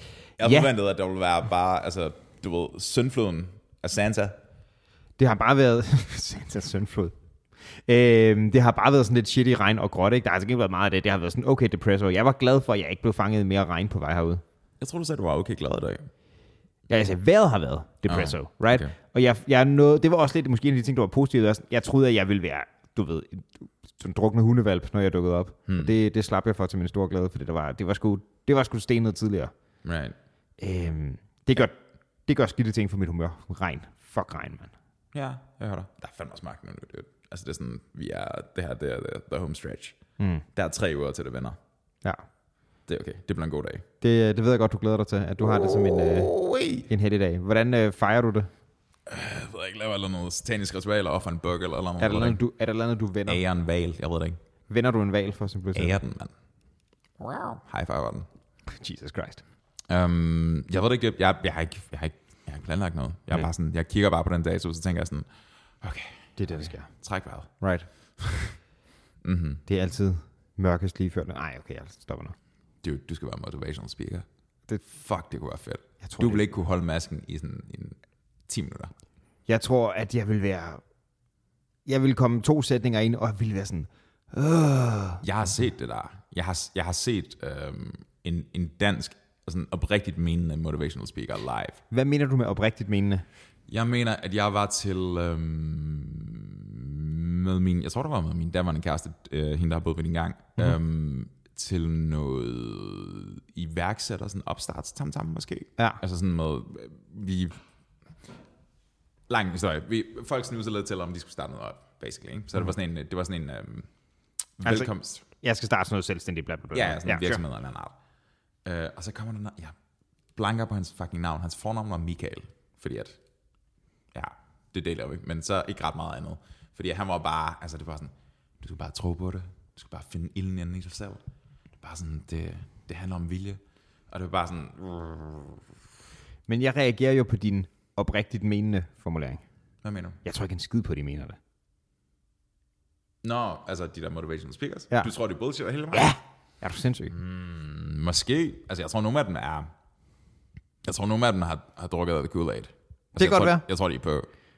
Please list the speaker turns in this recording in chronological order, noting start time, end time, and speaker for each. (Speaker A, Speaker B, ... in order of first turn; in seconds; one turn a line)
Speaker A: 0.4-4.4
Speaker B: 0.4-0.7
Speaker B: 5.2-7.1
Speaker B: 7.9-14.4
Speaker A: 14.8-16.1
Speaker B: 16.9-29.5
Speaker A: 18.1-18.9
Speaker A: 25.7-25.9
Speaker A: 29.8-30.2
Speaker B: 30.6-31.8
Speaker B: 32.3-34.7
Speaker A: 35.1-40.0
Speaker B: 40.2-40.5
Speaker A: 40.5-41.6
Speaker A: 42.9-43.8
Speaker B: 44.0-46.3
Speaker A: 45.4-46.9
Speaker B: 46.9-48.5
Speaker A: 49.1-52.4
Speaker B: 52.0-53.4
Speaker A: 53.3-54.4
Speaker B: 54.7-56.0
Speaker A: 55.8-56.3
Speaker A: 57.2-58.3
Speaker B: 58.7-59.4
Speaker A: 59.9-65.3
Speaker A: 65.8-67.5
Speaker B: 66.4-66.9
Speaker B: 67.6-67.9
Speaker A: 68.2-68.6
Speaker A: 69.2-69.6
Speaker B: 69.7-72.3
Speaker A: 72.8-74.3
Speaker A: 74.9-78.9
Speaker B: 76.0-76.4
Speaker B: 79.5-80.8
Speaker B: 81.9-85.2
Speaker A: 85.2-91.8
Speaker B: 91.9-93.2
Speaker A: 93.7-107.6
Speaker A: 109.3-113.9
Speaker A: 114.6-115.2
Speaker B: 114.7-114.9
Speaker B: 115.4-117.4
Speaker A: 116.7-118.0
Speaker A: 118.7-119.8
Speaker A: 120.4-123.2
Speaker A: 124.1-131.2
Speaker A: 131.8-135.6
Speaker B: 136.5-139.4
Speaker A: 139.8-140.2
Speaker B: 140.2-141.4
Speaker A: 143.2-146.1
Speaker B: 145.9-147.1
Speaker A: 147.1-149.7
Speaker A: 150.8-154.3
Speaker B: 153.2-153.6